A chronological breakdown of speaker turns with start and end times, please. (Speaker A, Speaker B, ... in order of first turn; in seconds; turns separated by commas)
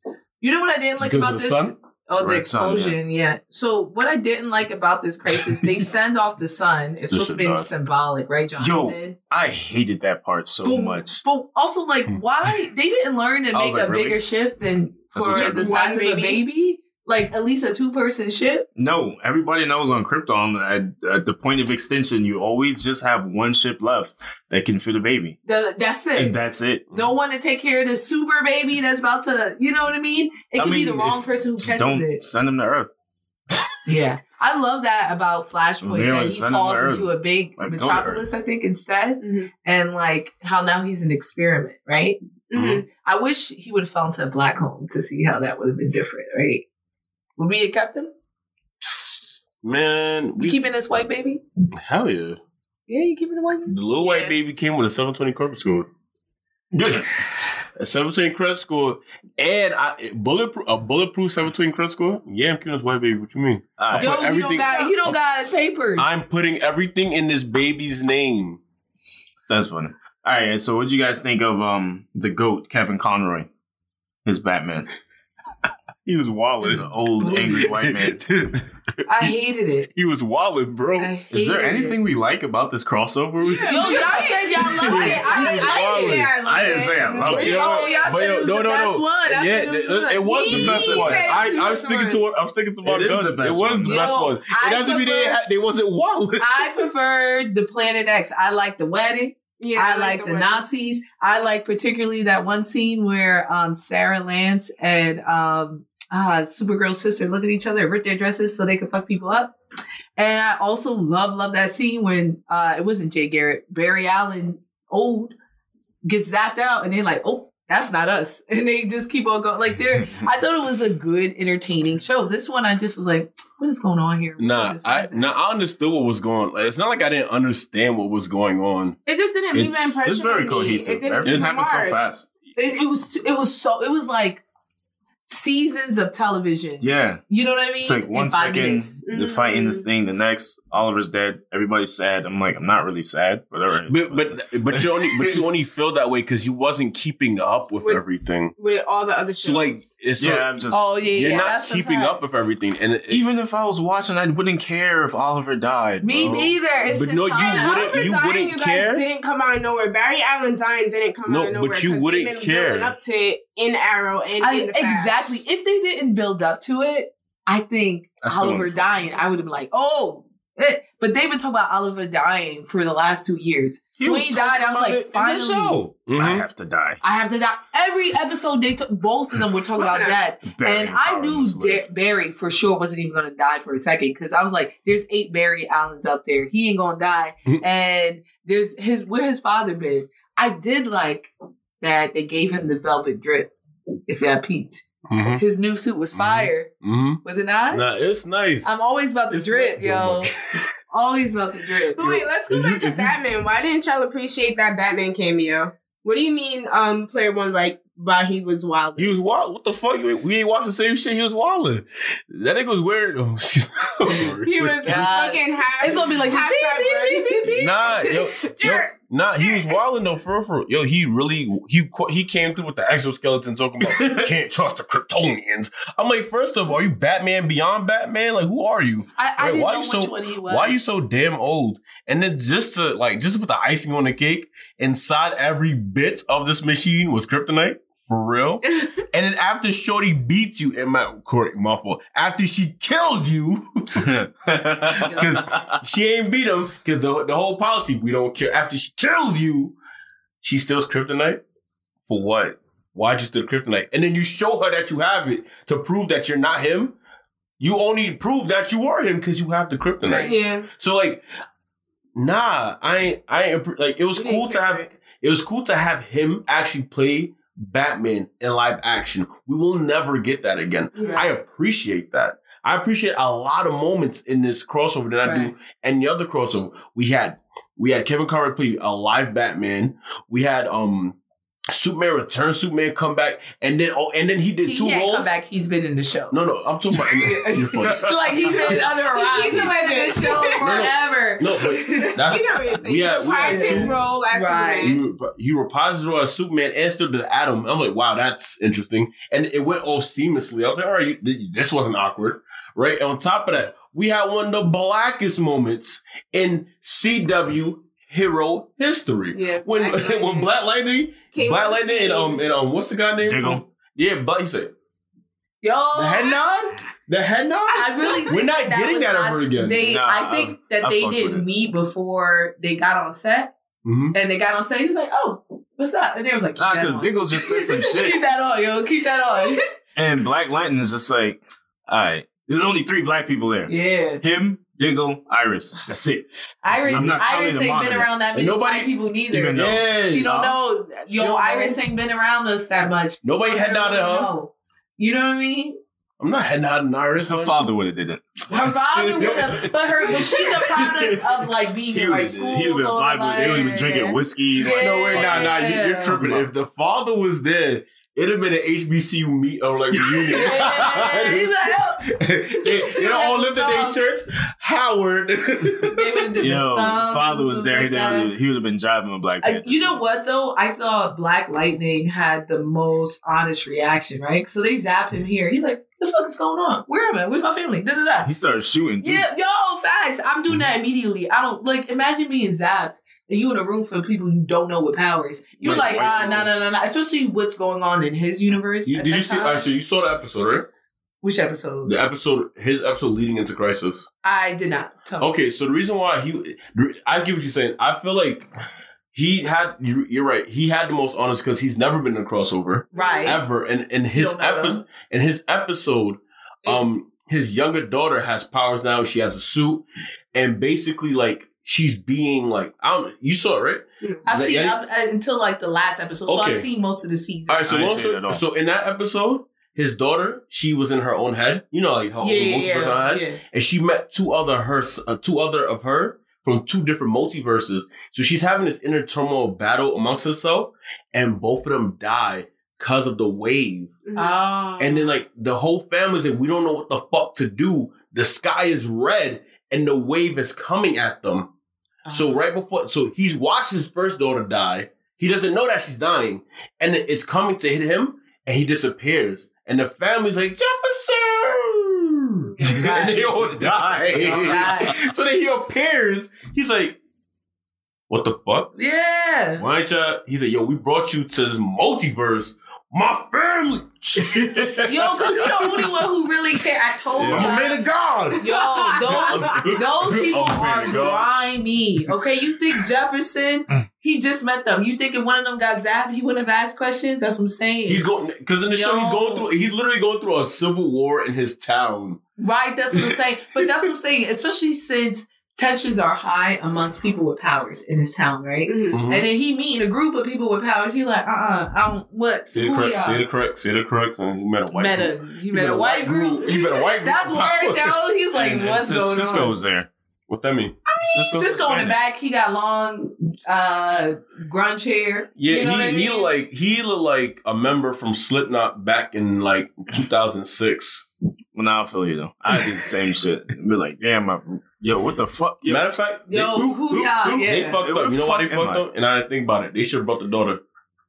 Speaker A: 0.4-9.2, Speaker B: 1.0-1.8, Speaker C: 2.2-2.9, Speaker B: 7.1-7.6, Speaker C: 8.6-11.2, Speaker A: 10.6-18.7, Speaker C: 13.5-14.2, Speaker C: 15.2-15.8, Speaker D: 15.3-16.4, Speaker C: 18.8-25.4, Speaker A: 25.4-26.4, Speaker C: 26.2-26.9, Speaker A: 26.9-32.2, Speaker C: 30.6-32.9, Speaker A: 33.9-42.2, Speaker C: 35.8-38.2, Speaker D: 39.2-39.5, Speaker D: 42.5-42.9, Speaker B: 42.5-42.8, Speaker A: 42.9-46.6, Speaker A: 47.4-48.1, Speaker B: 48.8-50.6, Speaker A: 50.4-51.4, Speaker B: 51.8-52.4, Speaker A: 52.9-53.8, Speaker B: 53.7-55.9, Speaker D: 54.0-54.3, Speaker B: 56.8-57.0, Speaker B: 57.8-65.2, Speaker C: 63.8-64.1, Speaker A: 64.0-66.1, Speaker D: 64.6-64.9, Speaker B: 66.0-68.6, Speaker C: 69.5-73.5, Speaker C: 74.3-74.9, Speaker C: 76.1-78.2, Speaker A: 77.2-77.7, Speaker B: 77.6-78.6, Speaker A: 79.1-79.9, Speaker B: 80.0-81.1, Speaker A: 81.0-82.0, Speaker C: 81.3-84.1, Speaker D: 83.4-88.1, Speaker A: 83.7-91.6, Speaker B: 84.7-86.3, Speaker C: 85.1-87.6, Speaker B: 87.2-96.8, Speaker D: 90.2-92.2, Speaker C: 92.8-94.1, Speaker A: 93.8-95.4, Speaker A: 96.4-109.6, Speaker D: 99.6-100.6, Speaker A: 110.2-115.3, Speaker A: 116.0-125.3, Speaker B: 124.4-129.0, Speaker D: 129.1-132.0, Speaker C: 130.1-132.3, Speaker A: 132.6-134.4, Speaker A: 135.3-139.0, Speaker C: 136.8-137.2, Speaker C: 137.8-145.4, Speaker D: 139.1-139.9, Speaker B: 143.9-148.5, Speaker D: 148.6-149.8, Speaker B: 149.4-153.2, Speaker C: 150.2-150.9, Speaker A: 150.7-152.2, Speaker C: 153.1-156.5, Speaker A: 156.0-158.0, Speaker B: 156.9-159.0, Speaker D: 157.3-165.3, Speaker B: 161.3-162.9, Speaker A: 164.4-175.9, Speaker C: 168.2-168.8, Speaker C: 174.0-177.0, Speaker B: 176.1-176.5, Speaker A: 177.0-191.3, Speaker D: 179.8-180.2, Speaker C: 180.6-181.8, Speaker A: 191.8-193.5, Speaker A: 194.1-196.7, Speaker B: 195.1-195.4, Speaker B: 196.2-198.8, Speaker A: 197.2-197.8, Speaker A: 198.6-200.3, Speaker B: 199.3-200.4, Speaker A: 200.9-202.2, Speaker D: 201.9-209.2, Speaker B: 202.5-203.2, Speaker B: 209.0-215.1, Speaker A: 214.1-218.7, Speaker D: 214.4-218.9, Speaker B: 217.5-244.1, Speaker A: 219.4-219.7, Speaker A: 229.2-230.8, Speaker C: 244.2-244.8, Speaker A: 244.9-245.4, Speaker B: 245.0-249.8, Speaker B: 250.4-251.4, Speaker B: 252.1-257.0, Speaker B: 257.6-261.2, Speaker A: 260.0-260.4, Speaker D: 260.2-260.7, Speaker B: 262.2-281.2, Speaker D: 264.2-264.9, Speaker D: 271.0-271.3, Speaker A: 271.0-271.3, Speaker A: 275.2-275.5, Speaker B: 281.7-285.4, Speaker A: 284.6-286.4, Speaker B: 286.3-288.9, Speaker A: 287.0-292.4, Speaker D: 289.2-290.8, Speaker B: 290.5-294.0, Speaker D: 292.3-295.0, Speaker A: 293.4-295.0, Speaker B: 294.8-314.7, Speaker D: 309.3-310.5, Speaker D: 311.3-312.4, Speaker E: 313.3-313.6, Speaker C: 313.3-313.6, Speaker A: 315.6-316.6, Speaker B: 315.9-319.9, Speaker A: 317.7-323.5, Speaker E: 319.9-321.4, Speaker C: 319.9-321.4, Speaker B: 323.9-324.2, Speaker A: 324.1-329.6, Speaker E: 326.6-328.2, Speaker C: 326.8-328.2, Speaker E: 330.0-331.4, Speaker C: 330.0-331.4, Speaker E: 331.9-333.7, Speaker C: 332.2-333.7, Speaker A: 333.7-334.2, Speaker E: 334.2-335.8, Speaker C: 334.6-336.2, Speaker A: 336.6-345.8, Speaker C: 336.8-338.0, Speaker B: 336.9-337.2, Speaker E: 337.2-338.1, Speaker B: 338.3-338.9, Speaker E: 339.4-339.8, Speaker C: 339.4-340.5, Speaker B: 339.5-340.4, Speaker B: 341.1-341.7, Speaker B: 343.2-344.3, Speaker B: 346.2-347.7, Speaker E: 347.3-348.2, Speaker C: 347.8-348.2, Speaker A: 348.5-356.2, Speaker B: 348.9-349.7, Speaker C: 350.1-351.2, Speaker C: 351.9-356.5, Speaker E: 351.9-354.5, Speaker B: 354.7-366.5, Speaker E: 355.1-355.4, Speaker A: 360.3-364.1, Speaker A: 365.8-368.3, Speaker E: 366.4-369.9, Speaker C: 366.5-367.1, Speaker C: 368.1-368.3, Speaker A: 369.4-378.3, Speaker C: 369.5-369.9, Speaker E: 378.2-379.2, Speaker A: 379.0-389.7, Speaker B: 385.6-386.5, Speaker C: 385.7-386.1, Speaker B: 388.9-390.7, Speaker A: 391.2-391.9, Speaker B: 391.9-394.1, Speaker A: 394.2-395.3, Speaker B: 395.2-398.5, Speaker B: 399.1-414.8, Speaker A: 402.9-403.4, Speaker D: 402.9-403.3, Speaker A: 404.1-404.9, Speaker A: 414.3-417.7, Speaker B: 416.3-416.7, Speaker B: 417.5-434.0, Speaker E: 417.7-418.4, Speaker A: 422.2-423.4, Speaker D: 434.1-434.4, Speaker A: 434.2-435.2, Speaker B: 434.8-441.5, Speaker A: 442.1-442.4, Speaker B: 442.1-457.0, Speaker D: 452.6-452.9, Speaker A: 452.6-453.2, Speaker A: 454.1-455.0, Speaker B: 458.1-458.7, Speaker A: 458.8-459.7, Speaker B: 459.6-465.9, Speaker A: 464.8-467.9, Speaker B: 467.2-471.3, Speaker C: 467.2-467.6, Speaker D: 468.4-469.8, Speaker A: 468.4-478.1, Speaker C: 470.6-471.1, Speaker B: 477.9-482.2, Speaker A: 478.7-479.5, Speaker A: 482.4-493.2, Speaker D: 488.7-489.0, Speaker B: 488.9-489.3, Speaker B: 492.5-498.0, Speaker A: 494.7-499.6, Speaker C: 498.4-499.9, Speaker E: 498.4-499.8, Speaker B: 500.3-500.8, Speaker E: 501.1-501.9, Speaker A: 501.2-506.3, Speaker C: 501.4-501.9, Speaker B: 505.4-511.1, Speaker E: 511.6-515.5, Speaker C: 511.9-515.9, Speaker B: 515.6-520.6, Speaker A: 516.3-517.8, Speaker E: 517.8-518.8